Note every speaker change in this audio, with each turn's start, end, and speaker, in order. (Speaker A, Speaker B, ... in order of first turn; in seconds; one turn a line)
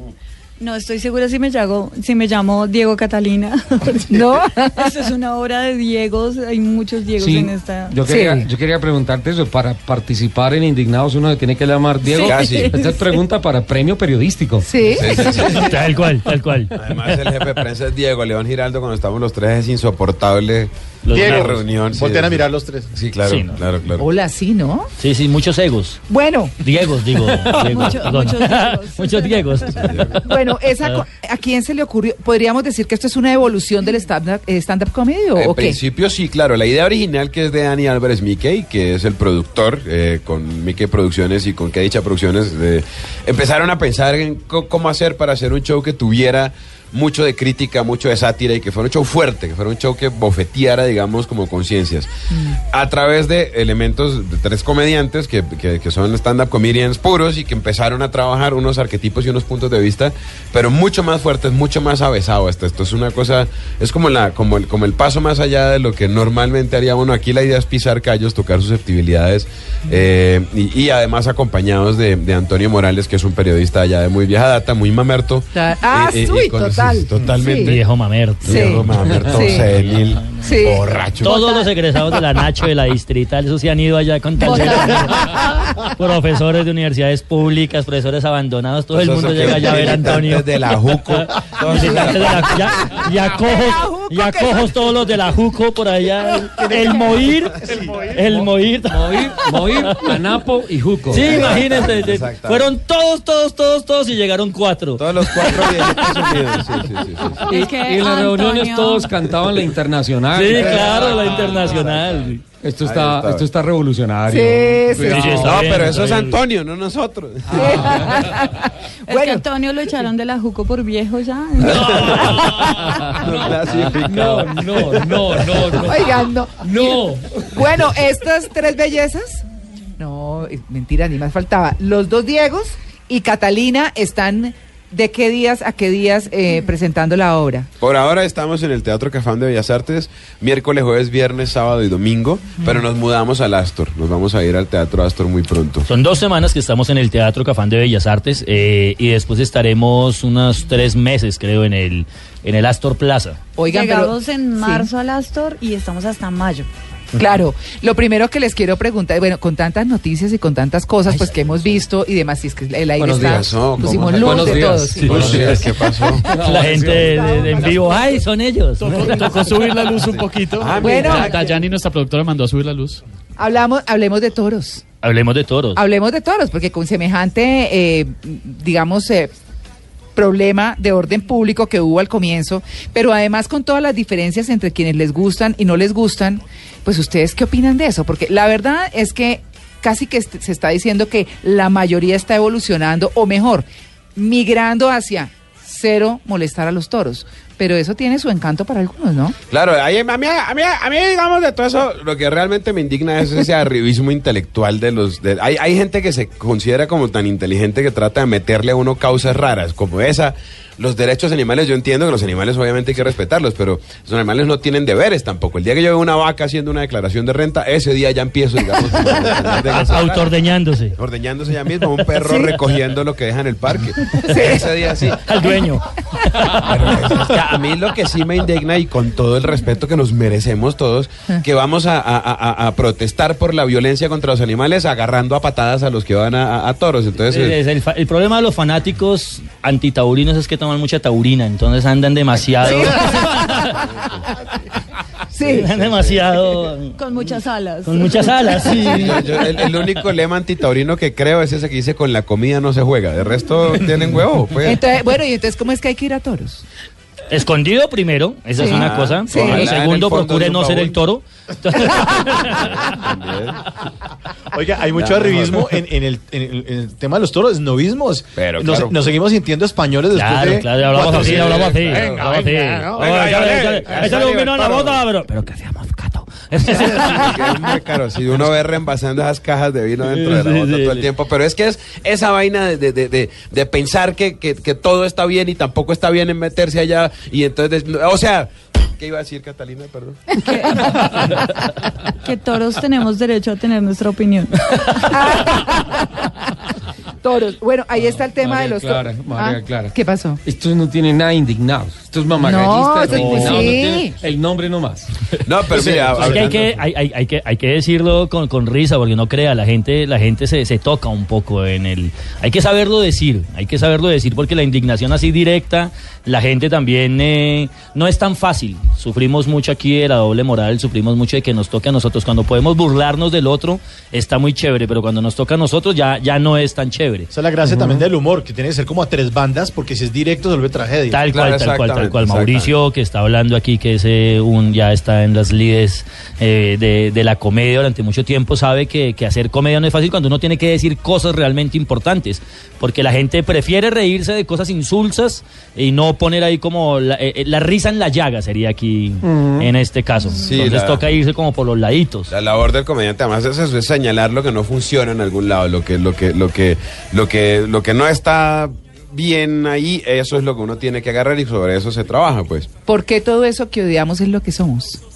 Speaker A: 0.6-4.1
Speaker B: 4.1-5.0
Speaker A: 4.8-8.0
Speaker C: 7.2-14.7
Speaker B: 8.1-8.5
Speaker A: 12.0-13.2
Speaker D: 12.2-12.7
Speaker B: 14.6-15.6
Speaker D: 14.9-15.7
Speaker E: 15.4-16.7
Speaker D: 16.8-22.4
Speaker E: 21.1-21.6
Speaker F: 21.1-22.9
Speaker D: 22.9-24.1
Speaker E: 23.2-23.6
Speaker B: 24.0-24.9
Speaker E: 25.0-26.0
Speaker B: 26.1-26.6
Speaker E: 26.6-30.1
Speaker A: 27.4-29.9
Speaker D: 29.8-30.1
Speaker B: 30.2-35.8
Speaker D: 35.3-52.1
Speaker B: 52.3-52.6
Speaker D: 52.7-77.8
Speaker B: 75.5-77.8
Speaker E: 77.6-79.6
Speaker D: 78.4-81.4
Speaker B: 78.5-79.7
Speaker B: 80.4-81.7
Speaker E: 81.2-90.5
Speaker B: 84.4-84.9
Speaker D: 88.9-92.9
Speaker E: 91.1-99.3
Speaker B: 93.2-94.8
Speaker F: 96.5-98.2
Speaker C: 98.9-101.3
Speaker E: 99.8-100.1
Speaker E: 101.1-106.1
Speaker D: 101.1-102.7
Speaker D: 105.0-107.5
Speaker A: 107.4-109.1
Speaker C: 107.4-111.3
Speaker E: 110.3-112.4
Speaker D: 110.4-113.5
Speaker C: 112.6-116.0
Speaker B: 114.3-115.6
Speaker E: 115.1-116.4
Speaker D: 115.2-118.1
Speaker B: 117.5-119.4
Speaker C: 117.7-118.2
Speaker A: 119.1-122.6
Speaker C: 121.7-127.9
Speaker D: 122.7-125.7
Speaker B: 125.8-129.4
Speaker B: 130.0-137.7
Speaker D: 137.8-145.9
Speaker E: 145.9-153.4
Speaker B: 153.6-154.9
Speaker A: 153.6-156.7
Speaker B: 157.2-165.6
Speaker C: 163.0-165.7
Speaker D: 163.1-166.3
Speaker C: 166.2-167.7
Speaker E: 166.3-169.8
Speaker G: 168.8-173.0
Speaker D: 170.1-171.6
Speaker B: 170.8-171.4
Speaker B: 173.4-174.8
Speaker E: 175.0-175.8
Speaker B: 175.8-179.3
Speaker B: 180.1-199.4
Speaker D: 199.5-220.3
Speaker E: 219.8-220.9
Speaker D: 221.0-225.2
Speaker B: 222.2-222.5
Speaker B: 224.2-224.9
Speaker E: 225.2-227.2
Speaker D: 226.6-237.6
Speaker E: 237.3-243.8
Speaker B: 242.6-243.7
Speaker D: 243.7-244.2
Speaker B: 245.3-245.7
Speaker E: 245.4-247.0
Speaker D: 245.5-246.2
Speaker A: 246.9-248.8
Speaker E: 247.8-249.2
Speaker D: 248.8-254.8
Speaker B: 254.6-256.6
Speaker E: 257.3-262.7
Speaker B: 258.6-259.7
Speaker D: 258.6-261.0
Speaker D: 262.4-263.7
Speaker F: 264.5-273.4
Speaker D: 264.9-265.7
Speaker D: 268.4-269.0
Speaker E: 270.1-277.3
Speaker D: 270.9-275.0
Speaker D: 276.7-290.2
Speaker E: 280.1-281.1
Speaker A: 290.4-291.3
Speaker B: 290.5-290.9
Speaker A: 292.2-295.3
Speaker B: 295.1-296.3
Speaker B: 297.2-300.4
Speaker C: 298.0-305.1
Speaker B: 302.4-304.1
Speaker F: 303.1-303.5
Speaker D: 305.4-306.8
Speaker F: 305.7-306.5
Speaker E: 306.2-327.3
Speaker F: 327.3-331.2
Speaker E: 331.1-352.3
Speaker D: 331.3-332.7
Speaker C: 349.2-349.7
Speaker A: 350.3-350.6
Speaker D: 350.4-351.0
Speaker D: 352.3-362.7
Speaker B: 362.9-365.0